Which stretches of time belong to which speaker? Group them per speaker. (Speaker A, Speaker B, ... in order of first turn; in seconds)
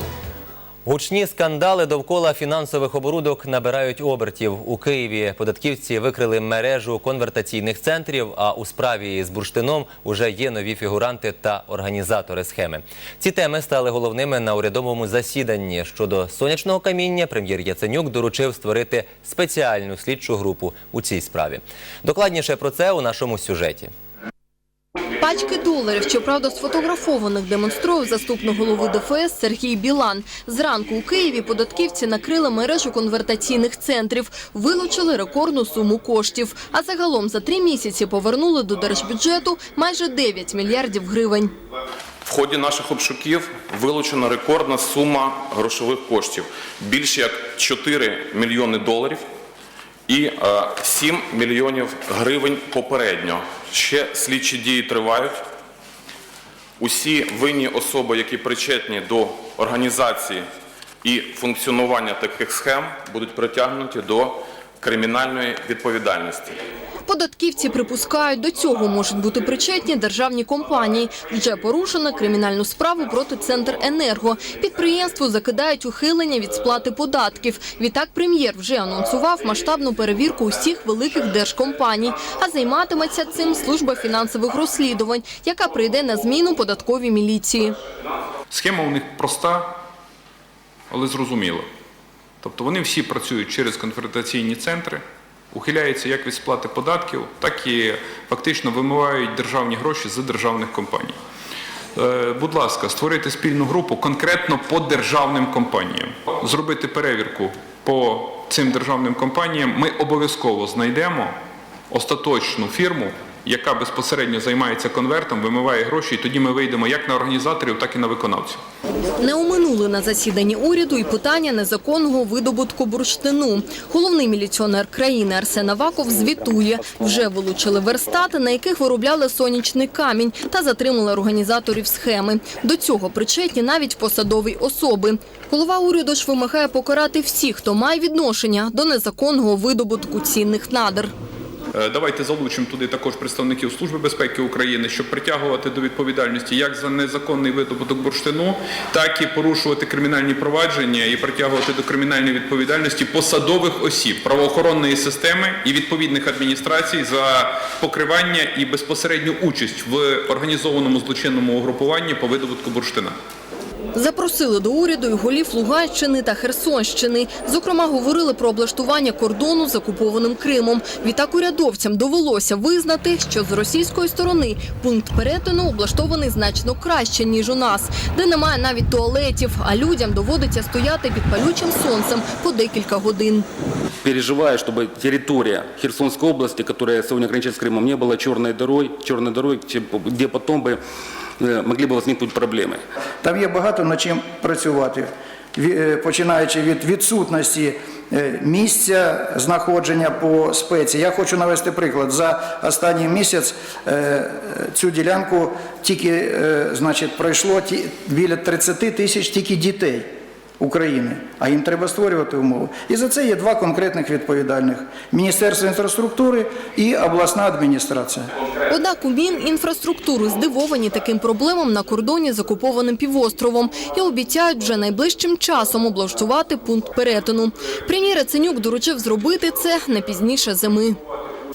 Speaker A: 0.8-23.9
Speaker B: 25.2-41.5, 67.1-87.8, 119.2-141.1, 163.9-183.5, 218.7-231.0
Speaker C: 42.3-49.2, 50.1-55.3, 56.8-60.4, 61.0-66.5
Speaker D: 88.5-89.7, 90.9-91.7, 92.4-95.0, 95.5-101.2, 102.0-111.3, 111.9-118.6, 141.7-163.1
Speaker E: 184.0-190.8, 191.4-192.8
Speaker F: 193.2-218.3